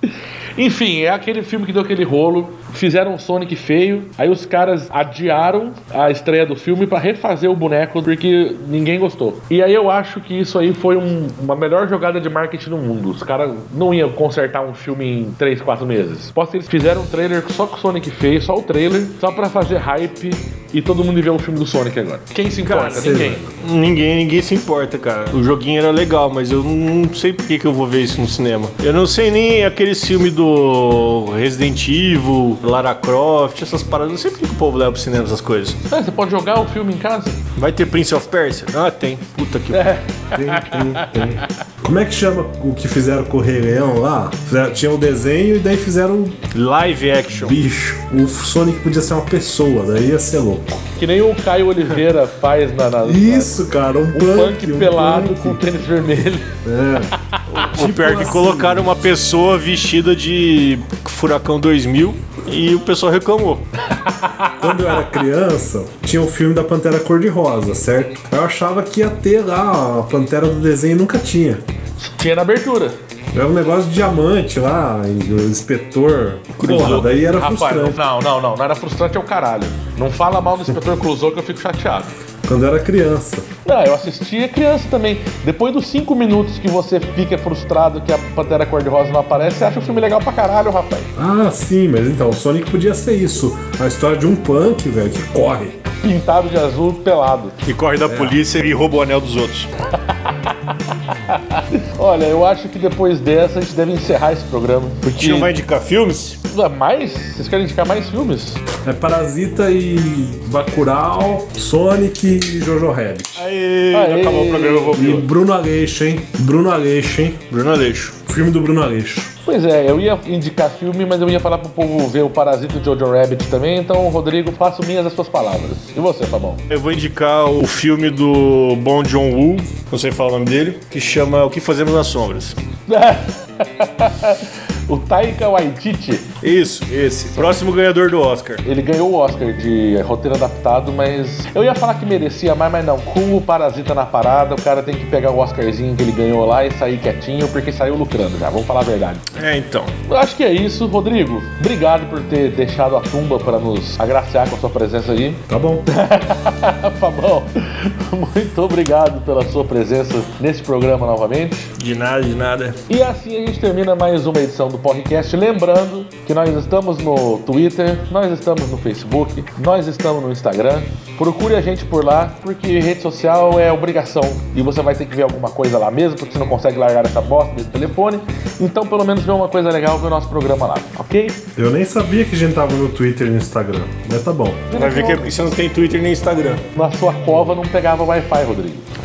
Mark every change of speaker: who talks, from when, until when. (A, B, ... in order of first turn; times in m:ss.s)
0:00.6-0:23.4 A
0:22.6-0:35.8 B
0:22.9-0:23.5 C
0:35.9-0:37.4 A
0:37.6-0:40.0 B
0:39.7-0:41.4 A
0:40.3-0:46.4 C
0:46.5-0:47.6 B
0:47.3-0:50.8 C
0:51.0-0:53.6 A
0:53.0-0:55.6 C
0:54.1-0:56.6 A
0:56.6-0:59.0 C
0:57.2-0:57.5 A
0:57.6-1:03.6 B
1:03.9-1:04.9 A
1:04.6-1:11.6 C
1:12.0-1:13.0 A
1:13.3-1:18.0 C
1:16.5-1:17.2 B
1:16.8-1:22.1 A
1:22.4-1:23.4 C
1:23.7-1:31.1 A
1:31.2-1:35.9 C
1:36.0-1:37.6 A
1:37.6-1:39.7 B
1:38.1-1:38.4 C
1:40.0-1:40.7 A
1:41.3-1:45.5 A
1:45.2-1:46.4 B
1:46.4-1:48.6 A
1:48.8-1:53.5 C
1:53.4-1:55.2 B
1:53.9-1:55.2 A
1:54.9-1:57.5 C
1:57.5-1:58.2 B
1:58.3-1:59.3 C
1:59.4-2:06.6 A
2:06.7-2:12.6 B
2:12.9-2:16.4 A
2:16.4-2:18.6 B
2:17.3-2:17.6 A
2:18.6-2:29.3 A
2:29.3-2:29.9 B
2:30.1-2:41.7 A
2:35.5-2:35.9 C
2:41.8-2:42.8 B
2:42.9-3:01.4 A
3:01.6-3:04.7 C
3:04.7-3:05.3 A
3:04.7-3:06.6 B
3:06.8-3:08.8 A